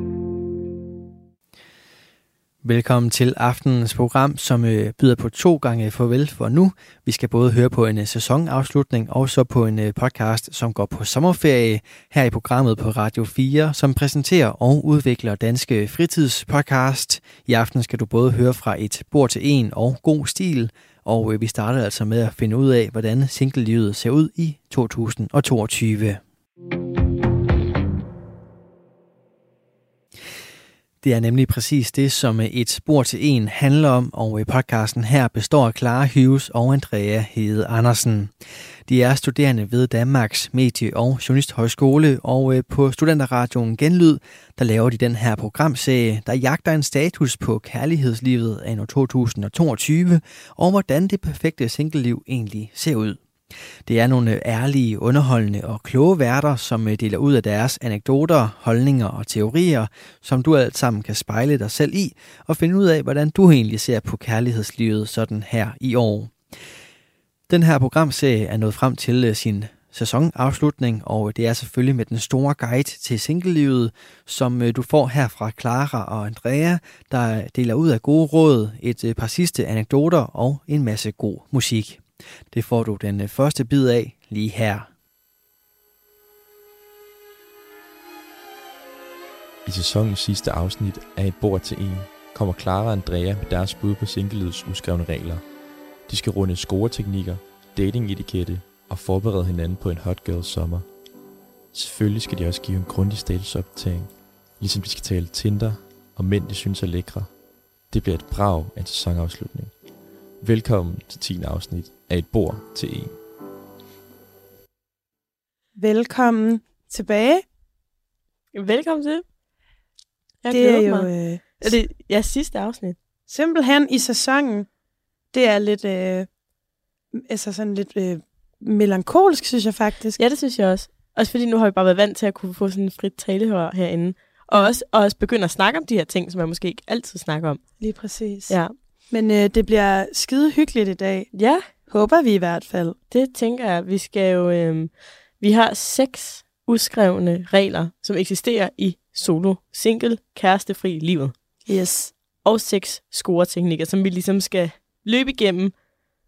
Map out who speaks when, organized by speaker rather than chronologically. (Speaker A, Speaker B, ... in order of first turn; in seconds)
Speaker A: 2.6-26.2, 31.0-38.3, 38.9-53.2, 53.9-66.3, 67.5-84.9
Speaker B: 89.6-95.4, 96.1-100.9, 101.7-107.3, 107.9-109.7, 110.4-113.2
Speaker C: 115.8-117.4, 120.5-121.8, 123.3-124.7, 125.3-126.3, 127.1-130.2, 137.8-138.5, 139.1-141.3, 141.9-143.0, 151.7-152.1
Speaker D: 118.5-119.2, 120.4-123.0, 130.2-137.6, 138.5-138.7, 141.3-141.6, 143.1-151.3, 152.4-155.7